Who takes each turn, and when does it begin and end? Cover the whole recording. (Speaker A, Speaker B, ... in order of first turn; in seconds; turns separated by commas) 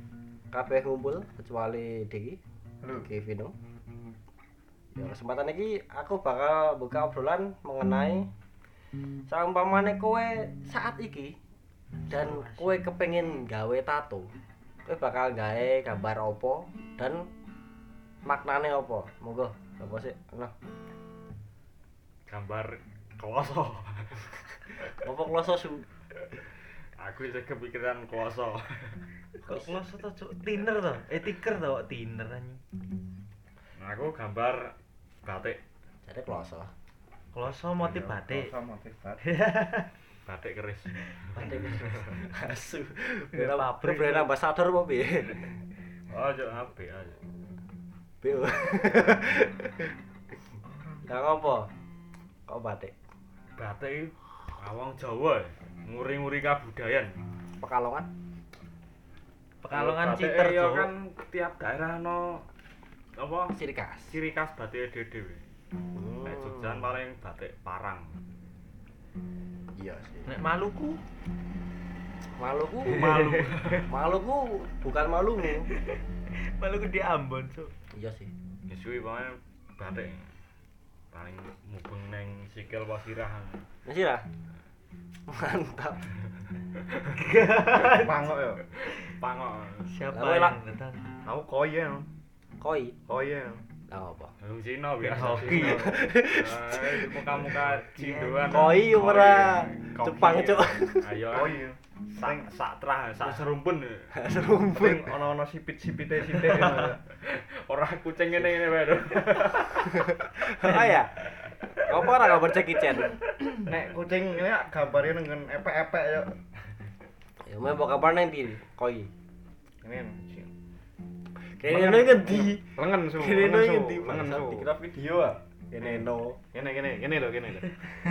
Speaker A: 0.5-2.4, Speaker A: 2.9-3.5, Speaker A: 5.0-8.3, Speaker A: 9.3-11.3, Speaker B: 12.0-12.8, Speaker A: 12.1-14.3, Speaker A: 14.9-17.3, Speaker A: 18.3-20.5, Speaker C: 22.3-24.9, Speaker A: 25.0-25.9, Speaker C: 27.0-29.0, Speaker B: 29.5-32.6, Speaker C: 33.8-34.7, Speaker C: 35.2-35.6, Speaker A: 36.0-36.7, Speaker B: 37.3-38.5, Speaker D: 37.8-39.2, Speaker B: 39.2-39.9, Speaker C: 40.3-42.0, Speaker A: 41.4-45.6, Speaker B: 43.3-44.3, Speaker C: 46.1-47.2, Speaker A: 48.2-49.9, Speaker A: 51.1-51.7, Speaker A: 52.5-52.9, Speaker C: 53.6-57.1, Speaker A: 57.6-58.1, Speaker B: 59.6-60.9, Speaker C: 59.7-62.4, Speaker C: 63.2-63.6, Speaker A: 63.5-64.2, Speaker C: 64.1-65.4, Speaker A: 65.9-66.9, Speaker C: 66.2-68.1, Speaker A: 69.8-70.3, Speaker B: 70.3-71.0, Speaker A: 72.4-75.7, Speaker B: 72.9-73.7, Speaker D: 73.2-73.5, Speaker B: 75.7-77.7, Speaker A: 77.9-78.3, Speaker C: 78.7-80.3, Speaker C: 81.1-83.6, Speaker A: 83.8-84.2, Speaker A: 85.3-86.1, Speaker B: 87.1-88.3, Speaker D: 87.7-88.6, Speaker C: 89.0-89.9, Speaker B: 89.9-91.0, Speaker A: 90.1-90.5, Speaker D: 91.2-92.1, Speaker A: 92.6-93.0, Speaker D: 93.1-93.6, Speaker A: 93.9-94.3, Speaker C: 94.4-104.1, Speaker B: 95.0-95.9, Speaker D: 95.4-96.0, Speaker A: 95.7-97.4, Speaker B: 97.9-98.8, Speaker A: 98.5-101.2, Speaker D: 101.3-102.5, Speaker A: 104.1-105.1, Speaker D: 104.7-107.0, Speaker C: 107.2-110.2, Speaker A: 109.9-111.2, Speaker B: 110.6-111.0, Speaker A: 111.8-113.2, Speaker D: 113.7-116.3, Speaker A: 117.4-119.1, Speaker D: 119.8-120.5, Speaker A: 121.5-124.8, Speaker D: 121.7-127.8, Speaker A: 125.7-126.4